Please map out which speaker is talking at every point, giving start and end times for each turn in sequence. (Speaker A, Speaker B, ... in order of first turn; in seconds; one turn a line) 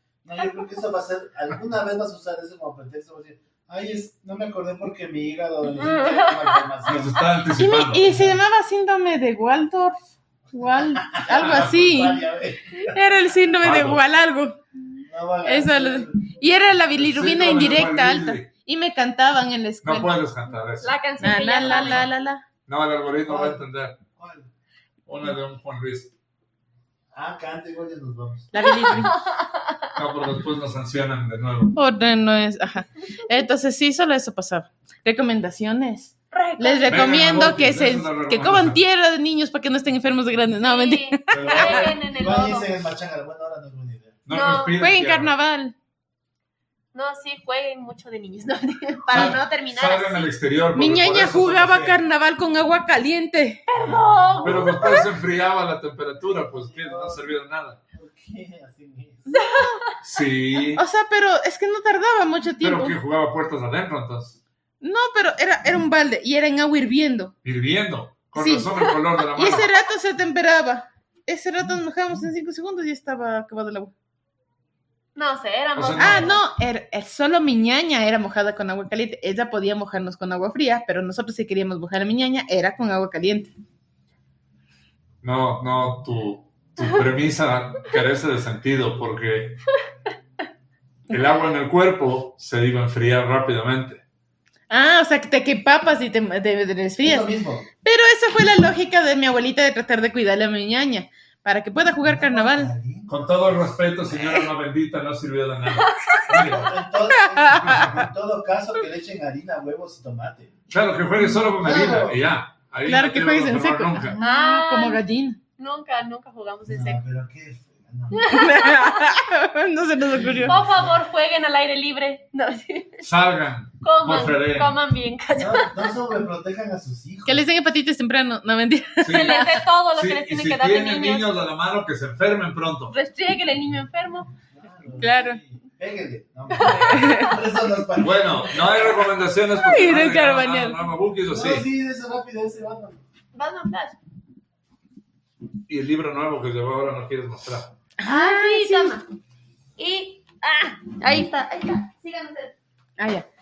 Speaker A: 0.2-7.3
Speaker B: 5.7-6.7
Speaker C: 6.9-8.4
Speaker D: 7.6-10.0
Speaker D: 10.5-12.2
Speaker A: 10.7-13.0
Speaker C: 11.3-12.1
Speaker D: 12.8-14.6
Speaker C: 13.6-14.0
Speaker A: 15.0-16.4
Speaker D: 15.4-20.2
Speaker C: 17.0-18.5
Speaker C: 19.8-20.9
Speaker B: 20.8-22.1
Speaker D: 21.2-22.4
Speaker C: 21.7-22.0
Speaker C: 22.7-24.0
Speaker A: 23.2-23.6
Speaker A: 24.2-24.5
Speaker C: 25.1-26.1
Speaker A: 27.1-28.5
Speaker D: 28.5-29.1
Speaker B: 28.6-29.8
Speaker C: 29.9-31.8
Speaker D: 31.7-41.9
Speaker B: 36.3-37.2
Speaker C: 36.9-38.8
Speaker B: 40.6-42.7
Speaker A: 41.3-44.2
Speaker C: 44.3-45.3
Speaker B: 44.3-44.8
Speaker D: 44.8-45.8
Speaker B: 46.9-50.3
Speaker C: 49.1-52.0
Speaker D: 50.7-53.6
Speaker B: 53.7-55.1
Speaker C: 53.8-57.8
Speaker A: 54.4-54.6
Speaker A: 56.5-57.3
Speaker A: 57.9-59.4
Speaker D: 59.3-59.8
Speaker B: 59.3-59.9
Speaker C: 60.0-60.8
Speaker D: 60.8-63.0
Speaker C: 62.6-64.4
Speaker D: 64.8-67.3
Speaker C: 67.4-69.7
Speaker D: 68.4-73.9
Speaker B: 75.2-76.4
Speaker C: 75.8-76.3
Speaker D: 76.0-83.5
Speaker C: 85.2-89.6
Speaker C: 91.1-94.0
Speaker D: 94.7-97.3
Speaker A: 97.0-97.7
Speaker D: 97.8-102.7
Speaker A: 102.0-103.9
Speaker C: 103.1-106.7
Speaker B: 105.7-106.5
Speaker A: 106.3-110.5
Speaker D: 107.1-108.0
Speaker C: 107.6-108.0
Speaker C: 110.7-114.2
Speaker A: 111.6-112.2
Speaker D: 112.8-115.4
Speaker B: 114.2-115.0
Speaker B: 115.6-117.0
Speaker A: 116.7-118.3
Speaker B: 118.1-119.1
Speaker D: 118.3-120.6
Speaker A: 120.1-121.0
Speaker B: 120.5-123.0
Speaker C: 123.0-124.8
Speaker B: 123.8-125.8
Speaker A: 125.4-127.5
Speaker D: 127.3-129.6
Speaker C: 129.0-129.3
Speaker B: 129.1-131.3
Speaker C: 129.9-132.9
Speaker B: 132.9-134.3
Speaker A: 134.5-138.9
Speaker D: 135.0-135.4
Speaker B: 136.5-137.3
Speaker D: 136.7-137.3
Speaker C: 138.0-141.7
Speaker D: 139.6-140.8
Speaker A: 141.3-143.0
Speaker B: 143.3-144.0
Speaker C: 145.7-147.8
Speaker D: 148.0-149.0
Speaker B: 148.1-149.1
Speaker B: 149.8-152.5
Speaker D: 153.0-153.3